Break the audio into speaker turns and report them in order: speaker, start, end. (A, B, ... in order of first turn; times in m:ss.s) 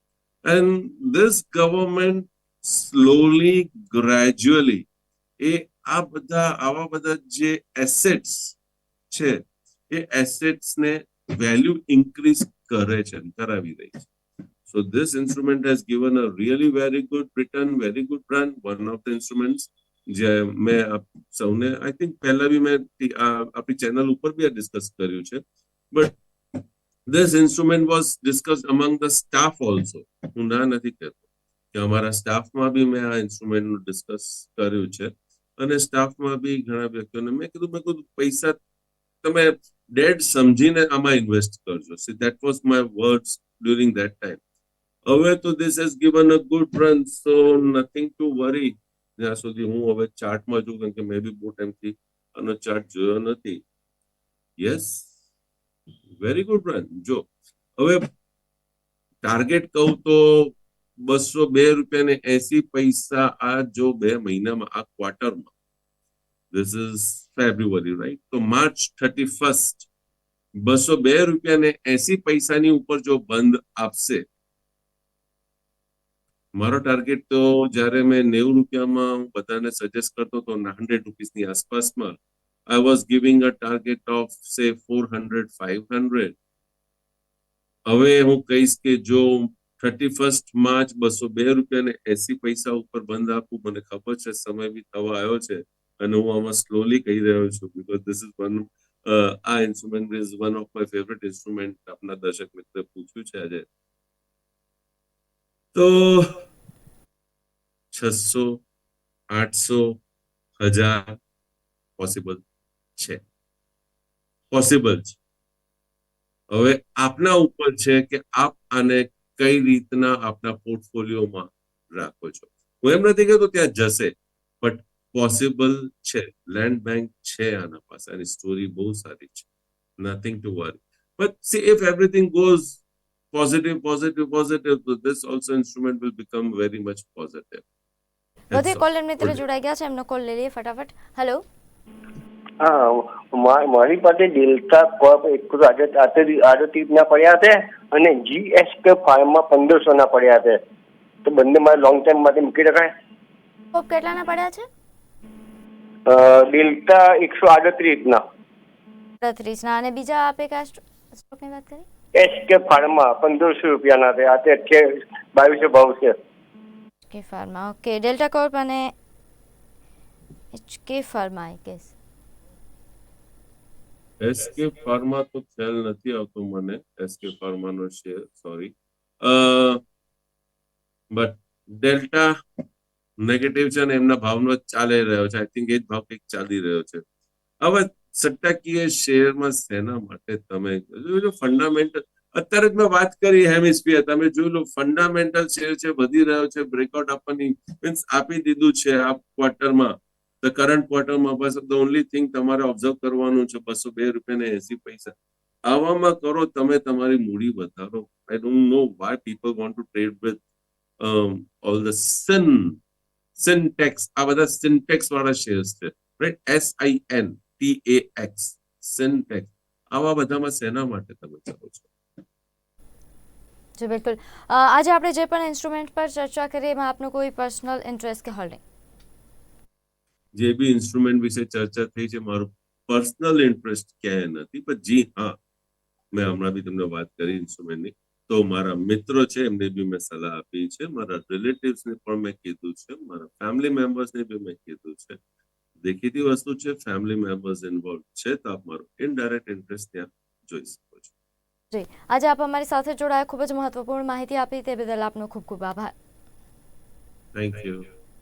0:00.4-0:04.8 A
0:05.4-0:08.6 A
0:09.1-0:14.1 A
0:14.7-0:38.6 A
0:39.2-0:44.4 A
0:45.1-0:53.6 A
0:54.6-0:55.1 A
0:56.1-0:58.1 A
0:59.2-1:05.5 A
1:06.5-1:09.9 A
1:10.6-1:14.2 A
1:16.6-1:22.2 A
1:22.7-1:26.3 A
1:27.9-1:43.6 A
1:45.7-1:46.4 A
1:47.9-1:48.6 A
1:49.3-1:50.0 A
1:50.6-1:51.2 A
1:52.0-1:52.4 A
1:54.5-1:55.2 A
1:56.5-2:09.4 A
2:10.0-2:12.8 A
2:13.3-2:17.6 A
2:18.5-2:19.4 A
2:18.5-2:21.4 B
2:22.6-2:30.6 C
2:31.2-2:32.9 C
2:33.7-2:34.7 B
2:36.0-2:38.2 C
2:39.2-2:41.8 B
2:42.1-2:46.2 C
2:47.1-2:48.9 B
2:50.5-2:51.9 B
2:54.2-2:59.8 A
3:01.1-3:02.4 A
3:03.2-3:07.0 A
3:07.6-3:25.1 A
3:25.7-3:30.4 A
3:31.0-3:32.8 A
3:33.4-3:41.9 A
3:43.8-3:48.6 B
3:50.3-3:55.4 A
3:56.1-4:05.2 A
4:05.8-4:11.1 A
4:11.7-4:15.9 B
4:17.3-4:17.9 A